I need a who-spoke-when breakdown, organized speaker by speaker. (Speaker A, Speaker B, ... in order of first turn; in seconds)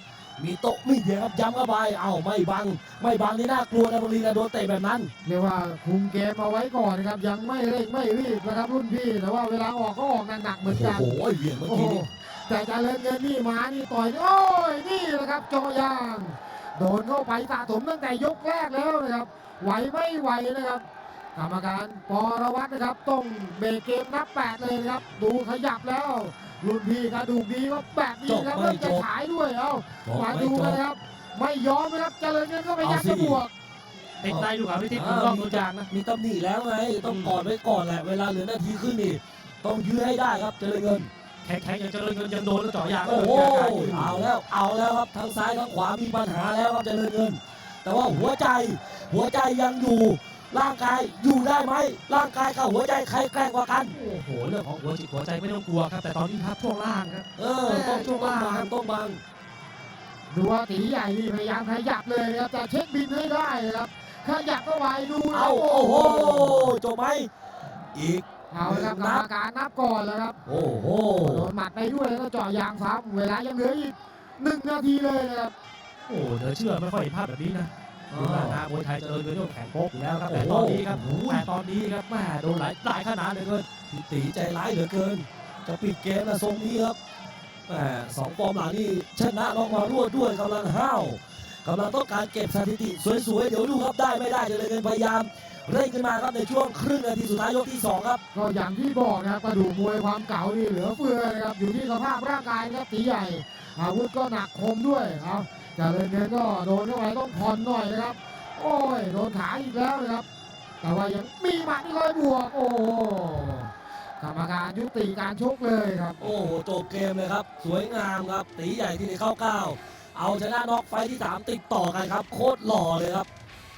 Speaker A: 0.4-5.1, 10.7-12.1, 28.3-29.0, 30.0-30.8, 32.8-33.4, 34.2-41.1, 43.0-53.9, 57.4-59.2, 65.3-67.3, 67.9-69.2, 70.4-71.5, 78.1-78.6, 80.2-81.5, 83.9-87.0, 87.7-98.2, 116.2-123.3
Speaker B: 5.2-33.5, 60.3-66.8, 68.5-70.4, 71.2-75.5, 98.3-110.2, 110.8-116.3
Speaker C: 34.2-35.9, 37.0-37.4, 41.4-44.3, 53.9-58.7, 76.1-83.8